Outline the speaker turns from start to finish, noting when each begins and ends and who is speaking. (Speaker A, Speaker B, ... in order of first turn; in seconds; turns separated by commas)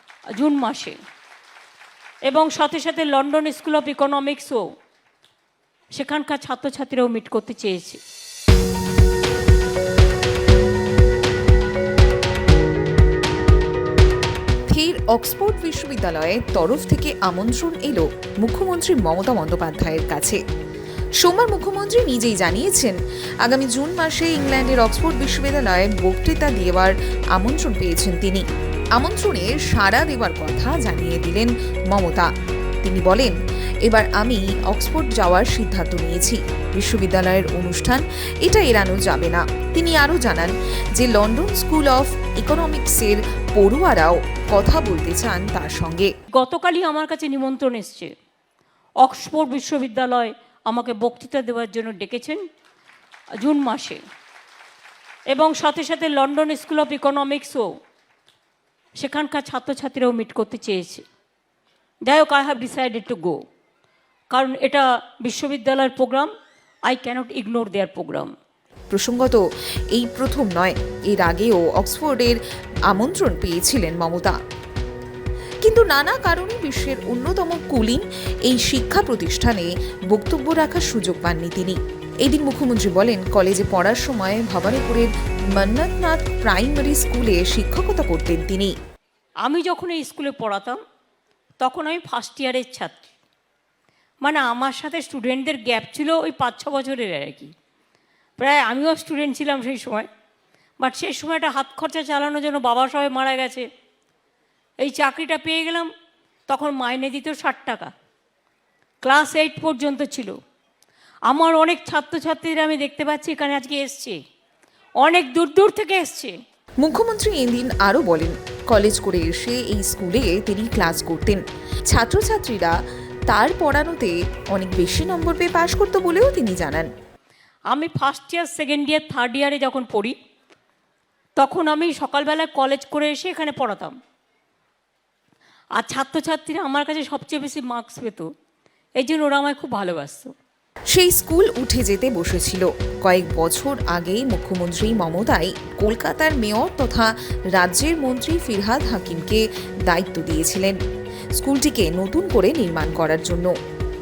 Speaker A: 0.4-1.0, Speaker A: 2.3-4.6, Speaker A: 5.9-8.0, Speaker B: 14.7-20.4, Speaker B: 21.2-28.4, Speaker B: 29.0-32.3, Speaker B: 32.8-46.1, Speaker A: 46.3-48.1, Speaker A: 49.0-52.4, Speaker A: 53.4-54.0, Speaker A: 55.3-57.7, Speaker A: 59.0-61.0, Speaker A: 62.1-63.4, Speaker A: 64.3-66.3, Speaker A: 66.9-68.3, Speaker B: 68.9-69.4, Speaker B: 69.9-74.3, Speaker B: 75.6-88.7, Speaker A: 89.4-90.8, Speaker A: 91.6-93.1, Speaker A: 94.2-97.5, Speaker A: 98.4-100.1, Speaker A: 100.8-103.7, Speaker A: 104.8-105.9, Speaker A: 106.5-107.9, Speaker A: 109.0-110.4, Speaker A: 111.3-114.2, Speaker A: 115.0-116.3, Speaker B: 116.8-122.7, Speaker B: 123.3-126.9, Speaker A: 127.7-130.2, Speaker A: 131.4-133.9, Speaker A: 135.8-138.3, Speaker A: 139.0-140.3, Speaker B: 140.9-150.8, Speaker B: 151.4-153.5